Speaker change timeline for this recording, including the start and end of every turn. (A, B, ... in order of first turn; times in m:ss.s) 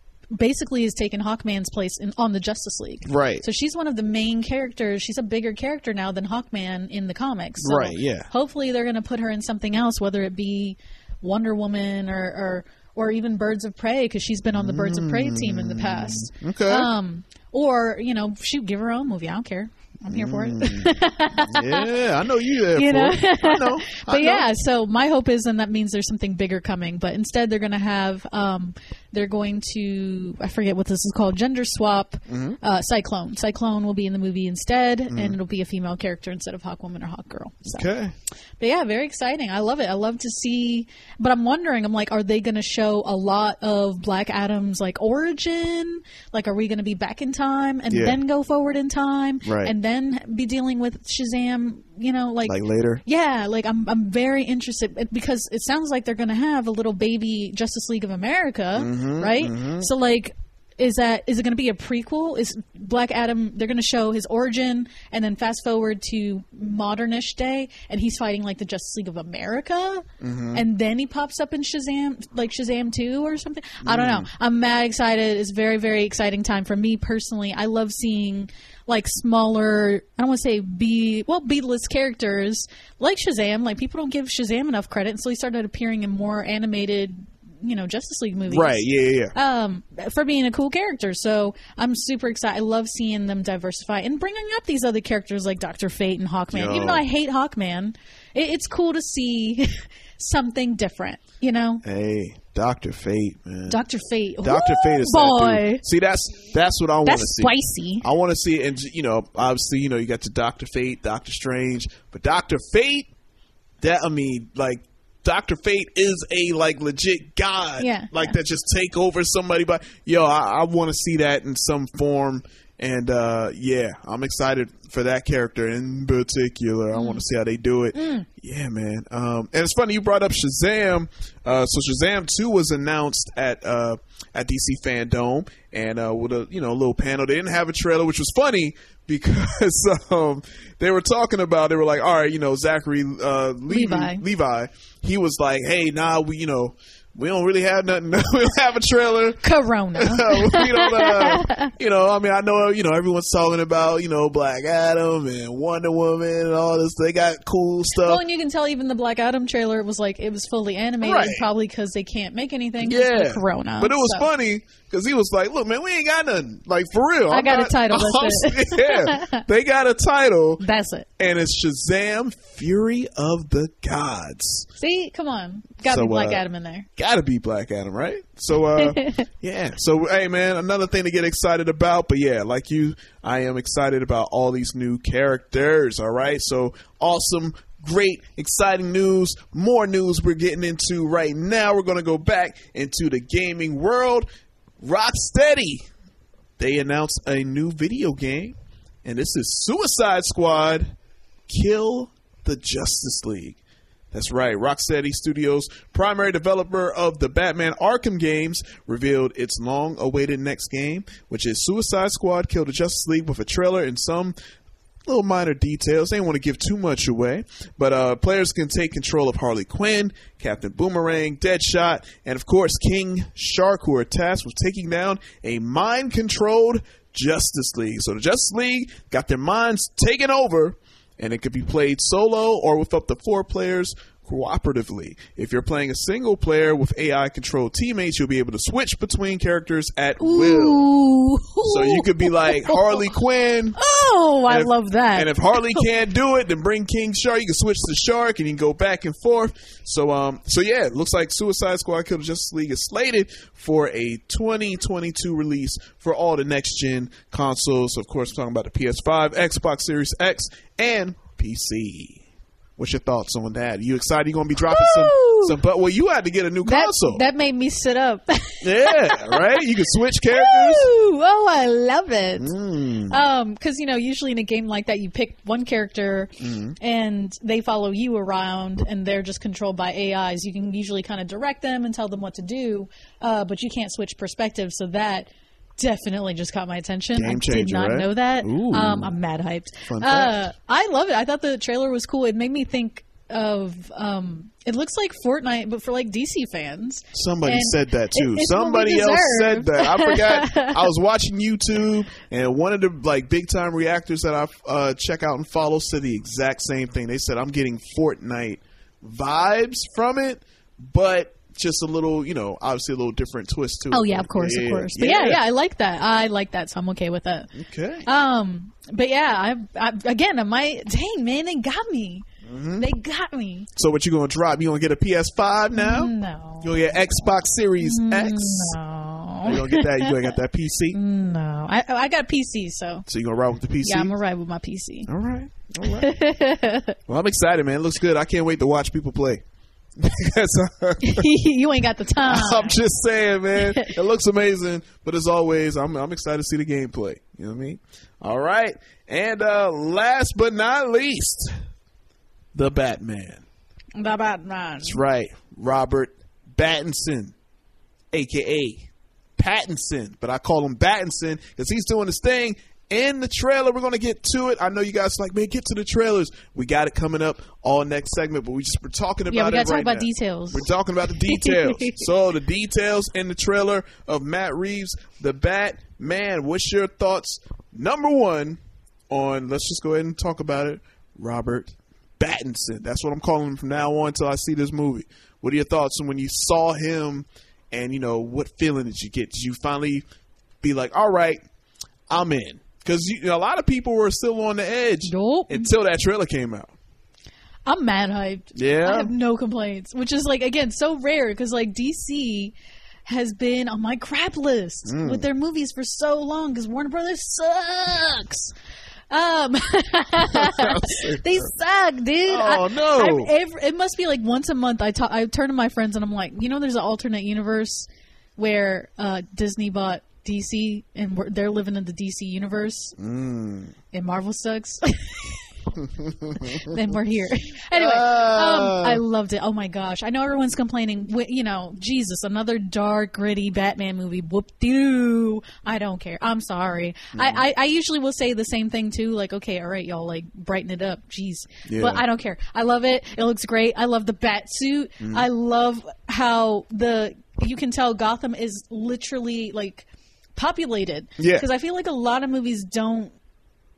0:00.3-0:21.9 A
0:03.0-0:03.4 B
0:07.6-0:08.3 B
0:14.5-0:16.9 B
0:20.1-0:24.5 B
0:22.7-0:37.9 A
0:32.3-0:32.6 B
0:35.1-0:35.4 B
0:37.7-0:38.1 B
0:38.6-1:41.8 A
0:47.9-0:48.2 B
0:49.4-0:49.7 B
0:52.4-0:53.0 B
0:58.7-0:59.9 B
1:10.2-1:10.6 B
1:13.8-1:14.3 B
1:28.5-1:29.4 B
1:36.5-1:37.0 B
1:41.8-1:43.8 B
1:43.7-1:45.8 A
1:44.4-1:53.1 B
1:47.0-1:48.0 A
1:53.8-2:29.4 B
1:57.8-1:58.4 A
2:06.9-2:07.2 A
2:08.0-2:08.3 A
2:23.7-2:24.2 A
2:29.4-2:31.7 A
2:29.9-2:38.2 B
2:38.0-2:44.3 A
2:41.0-2:41.4 B
2:42.8-2:50.6 B
2:47.3-2:49.4 A
2:50.6-2:51.1 A
2:51.2-2:54.7 B
2:54.8-2:56.9 A
2:55.8-2:56.4 B
2:57.0-3:14.3 B
2:58.8-2:59.3 A
3:14.8-3:15.9 B
3:16.6-3:20.9 B
3:21.5-3:23.6 B
3:24.1-3:34.4 B
3:35.0-4:00.8 B
4:00.2-4:03.1 A
4:01.6-4:03.8 B
4:03.8-4:05.9 A
4:04.5-4:22.2 B
4:22.8-4:27.2 B
4:24.7-4:25.6 A
4:26.6-4:29.7 A
4:28.6-4:30.9 B
4:30.3-4:32.5 A
4:32.4-4:33.2 B
4:33.1-5:00.9 A
4:36.4-4:36.8 B
4:47.1-4:49.1 B
4:49.8-4:50.4 B
4:57.1-5:15.4 B
5:13.9-5:17.5 A
5:17.6-5:18.1 B
5:18.0-5:22.2 A
5:22.4-5:22.9 B
5:22.8-5:23.7 A
5:23.8-5:28.8 B
5:25.7-5:26.8 A
5:27.8-5:30.4 A
5:29.4-5:31.0 B
5:30.9-5:33.1 A
5:33.1-5:34.1 B
5:33.8-5:35.1 A
5:35.1-5:36.1 B
5:35.9-5:37.0 A
5:37.1-5:39.4 B
5:40.0-5:41.3 B
5:41.0-5:42.8 A
5:42.2-5:51.5 B
5:43.6-5:43.9 A
5:52.5-5:53.4 B
5:54.0-5:55.0 A
5:54.8-5:57.4 B
5:58.1-6:18.6 B
6:09.3-6:12.0 A
6:19.1-6:30.0 B
6:30.6-6:31.4 B
6:32.1-6:36.7 B
6:35.0-6:35.7 A
6:37.7-6:42.5 A
6:38.6-6:39.1 B
6:43.0-6:48.5 A
6:44.9-6:45.2 B
6:49.1-7:03.0 A
6:50.2-6:51.5 B
6:52.3-6:53.3 B
7:03.0-7:03.7 B
7:03.9-7:05.4 A
7:05.8-7:06.9 B
7:06.4-7:33.1 A
7:07.7-7:09.0 B
7:17.1-7:17.4 B
7:21.7-7:22.0 B
7:25.0-7:25.3 B
7:31.2-7:31.5 B